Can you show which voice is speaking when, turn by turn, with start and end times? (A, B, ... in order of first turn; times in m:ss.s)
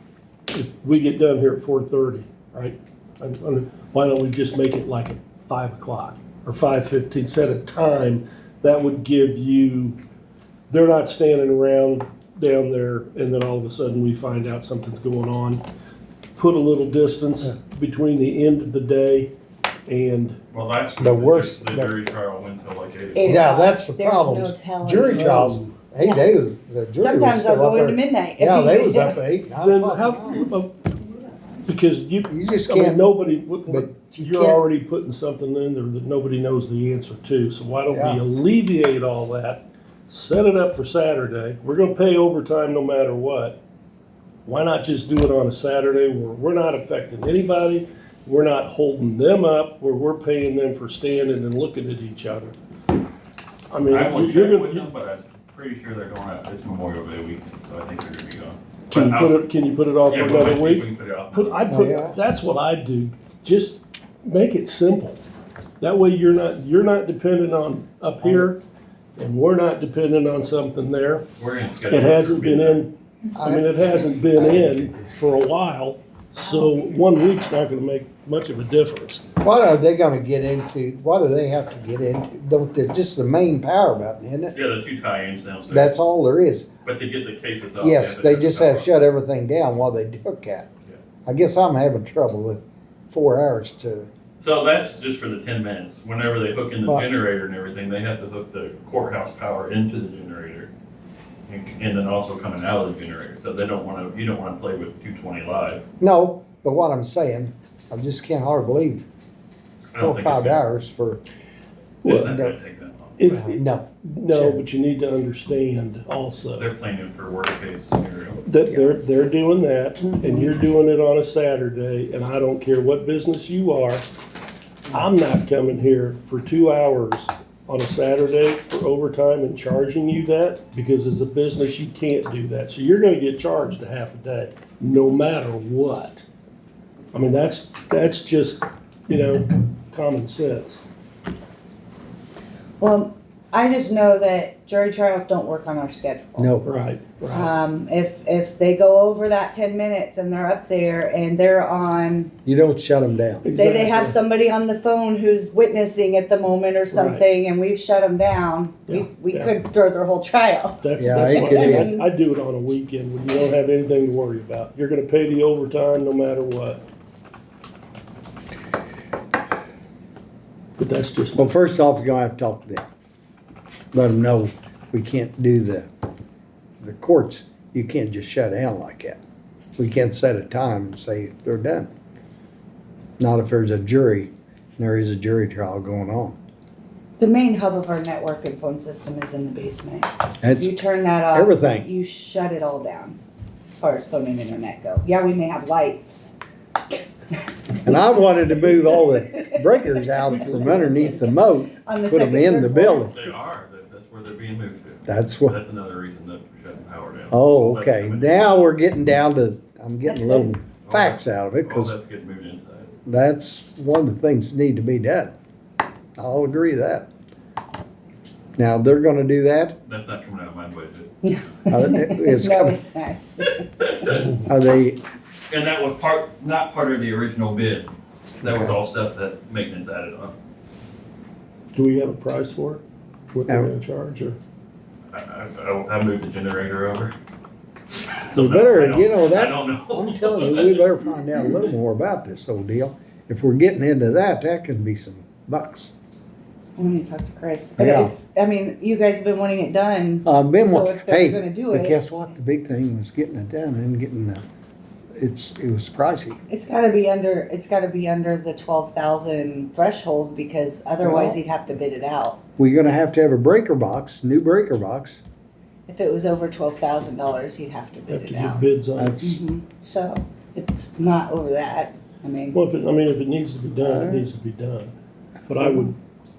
0:00.5-0:10.0 A
0:10.7-0:15.6 A
0:16.3-0:19.3 A
0:19.9-0:20.4 A
0:20.5-0:23.4 B
0:21.0-0:21.9 C
0:23.1-0:25.3 D
0:23.2-0:30.5 C
0:25.1-0:25.7 A
0:26.0-0:26.3 D
0:27.0-0:29.2 D
0:29.6-0:43.6 A
0:32.3-0:33.0 C
0:33.7-0:34.6 C
0:37.9-0:38.2 C
0:44.4-0:52.6 A
0:53.7-0:54.9 A
0:53.9-0:59.4 B
0:58.9-1:05.2 A
1:00.1-1:01.8 B
1:01.7-1:02.2 C
1:05.8-1:08.6 A
1:08.2-1:08.5 C
1:09.2-1:11.2 A
1:11.4-1:12.8 B
1:11.9-1:19.2 A
1:13.4-1:15.1 C
1:19.4-1:24.6 C
1:24.5-1:26.0 B
1:25.7-1:26.7 C
1:26.8-1:28.9 B
1:27.8-1:30.7 C
1:31.2-1:34.1 C
1:34.4-1:40.7 B
1:41.5-1:45.8 B
1:46.0-1:49.0 C
1:49.9-1:50.6 B
1:50.0-1:51.2 C
1:52.0-1:52.3 A
1:52.0-1:53.2 B
1:52.1-1:52.6 C
1:53.2-1:56.7 A
1:53.3-1:54.6 C
1:56.6-1:58.4 B
1:58.4-2:04.0 A
1:58.7-1:58.9 C
2:04.9-2:16.2 A
2:17.1-2:20.8 A
2:22.8-2:26.5 D
2:26.4-2:26.7 C
2:26.6-2:27.5 A
2:27.3-2:32.3 D
2:32.4-2:33.5 C
2:33.4-2:34.2 A
2:33.5-2:42.1 D
2:36.9-2:37.2 A
2:38.9-2:39.5 A
2:40.8-2:46.8 A
2:41.0-2:41.9 C
2:50.8-2:51.6 A
2:51.4-2:52.9 C
2:53.9-2:55.9 C
2:56.8-2:59.2 C
2:59.8-3:01.9 C
3:03.2-3:06.4 C
3:07.2-3:16.3 D
3:10.4-3:10.8 C
3:11.3-3:11.8 C
3:16.9-3:23.3 D
3:17.8-3:23.1 C
3:23.1-3:28.7 B
3:25.1-3:25.6 C
3:27.3-3:32.0 C
3:30.0-3:30.5 D
3:30.8-3:32.9 B
3:33.0-3:35.3 C
3:36.2-3:37.1 C
3:38.6-3:39.8 C
3:39.8-3:41.1 B
3:41.2-3:43.6 D
3:41.7-3:42.8 C
3:43.8-3:44.2 B
3:44.4-3:45.0 C
3:45.5-3:50.3 B
3:48.4-3:48.7 C
3:51.7-3:54.4 A
3:55.1-3:57.1 B
3:58.2-4:00.9 B
3:58.3-4:05.9 C
4:06.8-4:12.0 D
4:07.8-4:08.1 C
4:10.2-4:14.4 C
4:15.2-4:16.4 C
4:16.5-4:22.4 D
4:21.0-4:21.4 C
4:22.6-4:25.2 C
4:25.9-4:28.6 D
4:28.1-4:29.2 A
4:29.0-4:29.4 C
4:29.2-4:32.6 D
4:32.5-4:34.9 A
4:35.5-4:36.0 A